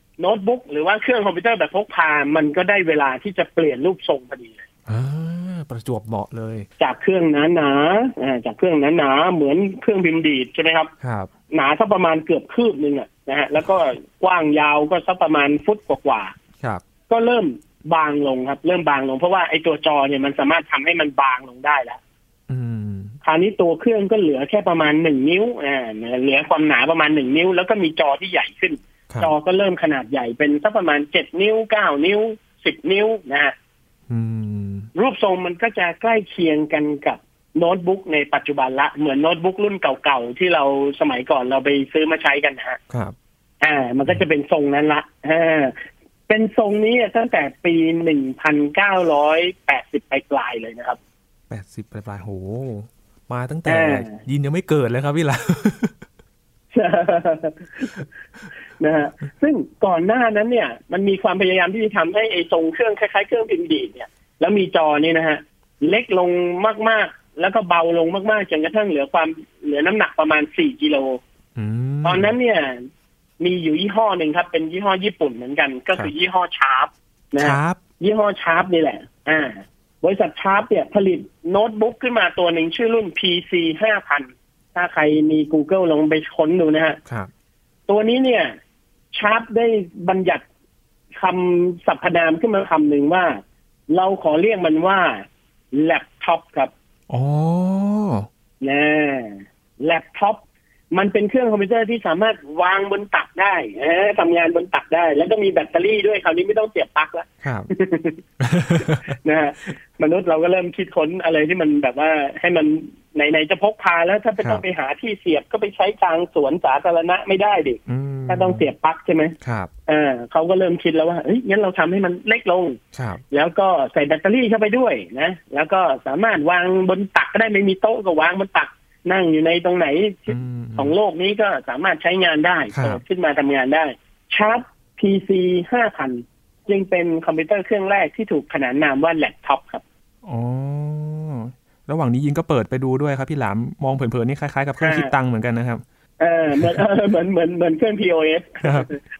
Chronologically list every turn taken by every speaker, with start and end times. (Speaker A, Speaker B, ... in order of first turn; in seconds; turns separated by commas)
Speaker A: 0.2-4.6, Speaker B: 4.9-6.7, Speaker A: 6.8-10.9, Speaker B: 11.0-11.3, Speaker A: 11.5-16.3, Speaker A: 17.1-22.0, Speaker B: 22.5-23.1, Speaker A: 23.2-33.5, Speaker B: 34.1-34.9, Speaker A: 35.0-42.8, Speaker B: 42.9-43.1, Speaker A: 43.6-51.0, Speaker B: 51.5-56.0, Speaker A: 53.7-54.2, Speaker A: 56.7-58.0, Speaker A: 58.8-71.2, Speaker B: 71.5-72.3, Speaker A: 72.0-72.8, Speaker A: 73.4-87.0, Speaker B: 77.4-77.8, Speaker A: 87.9-88.5, Speaker A: 89.1-90.4, Speaker A: 91.2-96.7, Speaker B: 97.1-98.3, Speaker A: 98.6-108.2, Speaker B: 107.4-107.7, Speaker B: 108.4-109.1, Speaker A: 108.8-119.3, Speaker B: 117.9-118.6, Speaker B: 119.4-119.7, Speaker A: 119.9-122.8, Speaker B: 122.9-123.2, Speaker A: 123.3-139.8, Speaker B: 130.3-130.9, Speaker B: 132.7-133.0, Speaker B: 140.2-145.8, Speaker A: 144.8-145.1, Speaker A: 146.2-149.0, Speaker B: 148.6-148.9